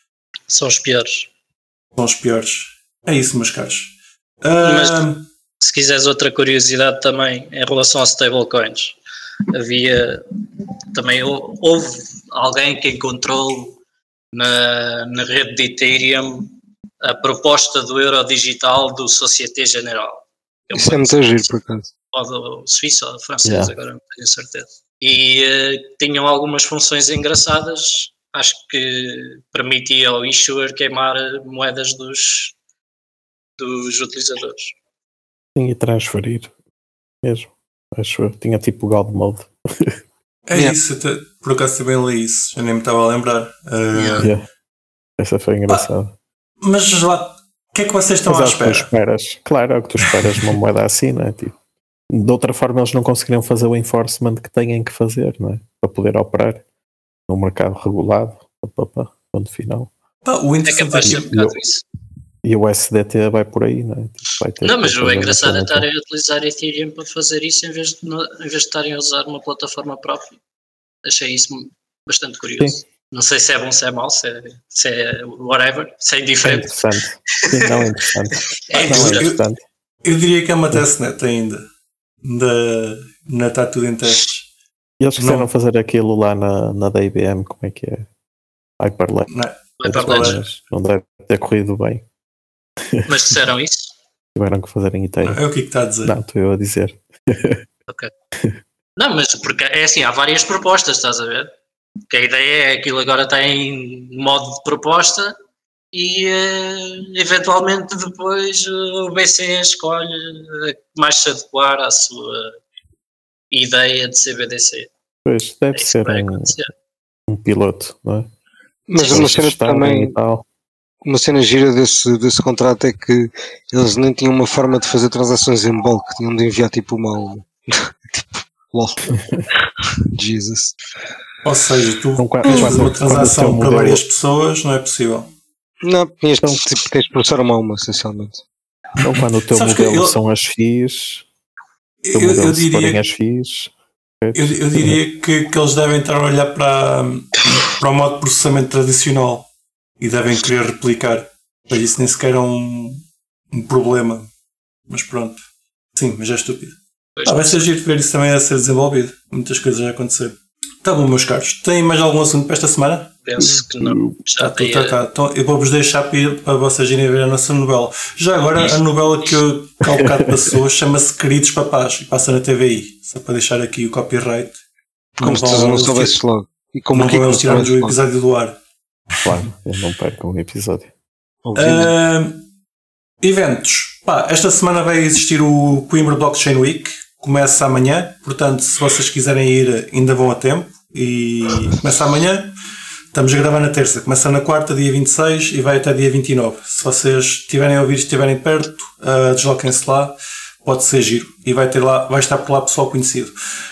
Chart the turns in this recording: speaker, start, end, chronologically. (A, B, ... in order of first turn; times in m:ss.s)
0:00.5-0:01.3 A
0:01.9-0:05.3 B
0:04.6-0:05.0 A
0:05.6-0:09.0 A
0:09.5-0:10.2 A
0:10.9-0:13.8 A
0:14.3-0:21.5 A
0:20.7-0:21.9 C
0:22.1-0:32.5 A
0:23.4-0:23.7 D
0:33.6-0:34.7 A
0:35.6-0:36.5 D
0:37.2-0:40.0 D
0:40.5-0:44.3 B
0:43.9-0:44.3 A
0:45.2-0:46.1 D
0:46.6-0:48.9 B
0:48.3-0:51.5 D
0:52.1-0:56.6 D
0:57.3-0:59.9 D
1:00.2-1:01.2 B
1:00.6-1:01.8 A
1:01.0-1:01.6 D
1:02.4-1:05.9 D
1:04.6-1:10.3 A
1:11.0-1:16.8 A
1:16.4-1:19.6 D
1:18.7-1:19.2 A
1:18.7-1:19.4 B
1:20.0-1:21.6 B
1:22.2-1:24.5 B
1:25.0-1:28.1 D
1:25.2-1:25.5 B
1:28.8-1:29.3 D
1:29.3-1:30.4 B
1:29.8-1:30.4 A
1:29.8-1:32.0 D
1:32.9-1:33.4 D
1:33.1-1:33.9 A
1:34.3-1:35.4 D
1:35.2-1:36.2 B
1:36.0-1:37.6 D
1:39.0-1:41.5 A
1:42.1-1:45.3 A
1:45.9-1:52.5 A
1:53.5-1:54.9 A
1:55.2-1:56.6 D
1:55.7-1:56.7 A
1:57.3-1:58.3 D
1:58.9-2:00.1 C
1:59.0-1:59.4 A
1:59.1-2:00.4 D
2:01.0-2:09.1 C
2:10.1-2:10.8 C
2:11.4-2:15.3 B
2:12.2-2:14.0 D
2:15.8-2:18.4 C
2:16.4-2:16.7 D
2:19.0-2:21.2 D
2:19.5-2:20.2 B
2:22.0-2:23.0 B
2:22.1-2:25.0 D
2:24.3-2:29.5 B
2:30.0-2:34.3 B
2:34.9-2:35.4 B
2:35.9-2:43.1 B
2:37.2-2:37.6 A
2:43.2-2:45.0 A
2:43.4-2:44.1 D
2:44.4-2:54.6 B
2:49.9-2:50.5 D
2:55.2-2:58.0 C
2:55.2-2:56.2 B
2:56.9-2:58.6 B
2:59.2-3:00.9 D
3:01.4-3:01.9 C
3:01.5-3:02.4 B
3:03.2-3:12.5 B
3:13.1-3:23.3 B